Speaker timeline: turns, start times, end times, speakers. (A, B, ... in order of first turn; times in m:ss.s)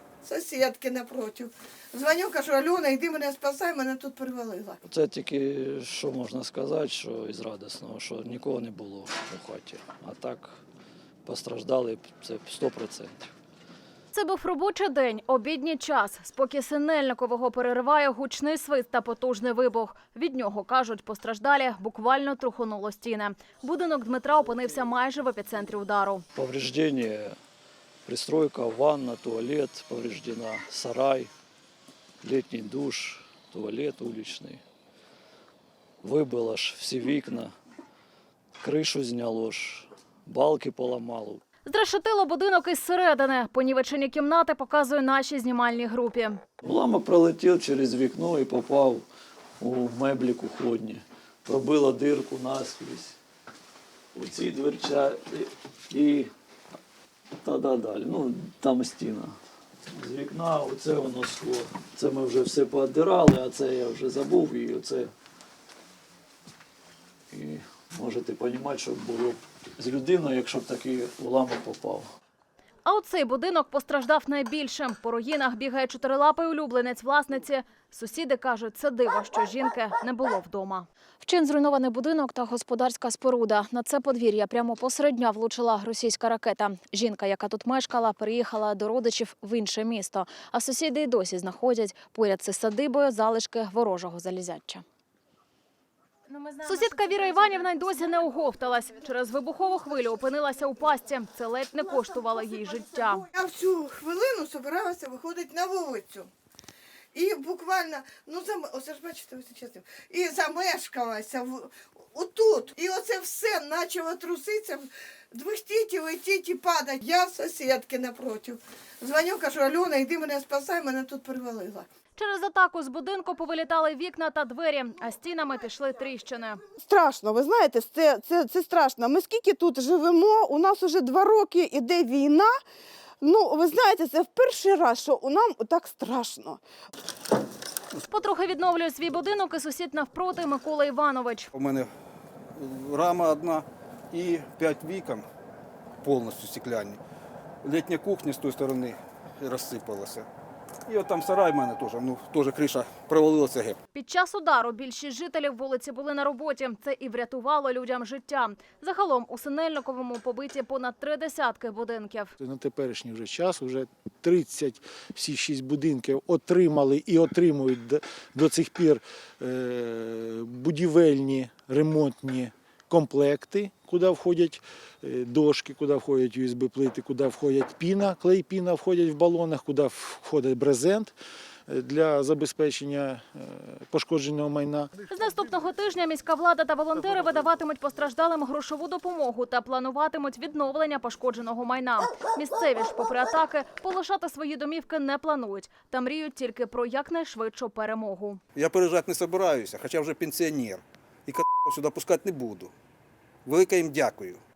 0:00.2-0:04.8 A
0:04.8-0:10.6 B
0:11.2-0:13.3 B
0:14.1-0:26.2 C
0:26.4-0:27.4 B
0:28.1-0:31.3 B
0:32.2-0:34.6 B
0:36.0-0:37.5 B
0:38.6-0:41.4 B
0:41.6-0:46.4 C
0:46.6-0:49.0 B
0:49.6-0:53.2 B
0:54.2-0:56.3 B
0:57.4-0:59.4 B
0:59.9-1:05.1 B
1:07.3-1:12.1 B
1:12.8-1:34.8 C
1:36.6-1:43.3 C
1:43.3-1:46.3 A
1:47.1-2:01.9 A
2:02.2-2:06.6 C
2:06.8-2:12.5 D
2:13.2-2:16.6 D
2:18.0-2:21.5 C
2:21.5-2:21.9 E
2:22.6-2:25.3 E
2:26.0-2:27.0 E
2:27.6-2:30.3 E
2:30.9-2:33.8 E
2:33.9-2:42.3 C
2:42.4-3:01.1 F
3:01.7-3:05.0 F
3:05.1-3:18.4 C
3:18.6-3:22.7 E
3:23.4-3:24.4 E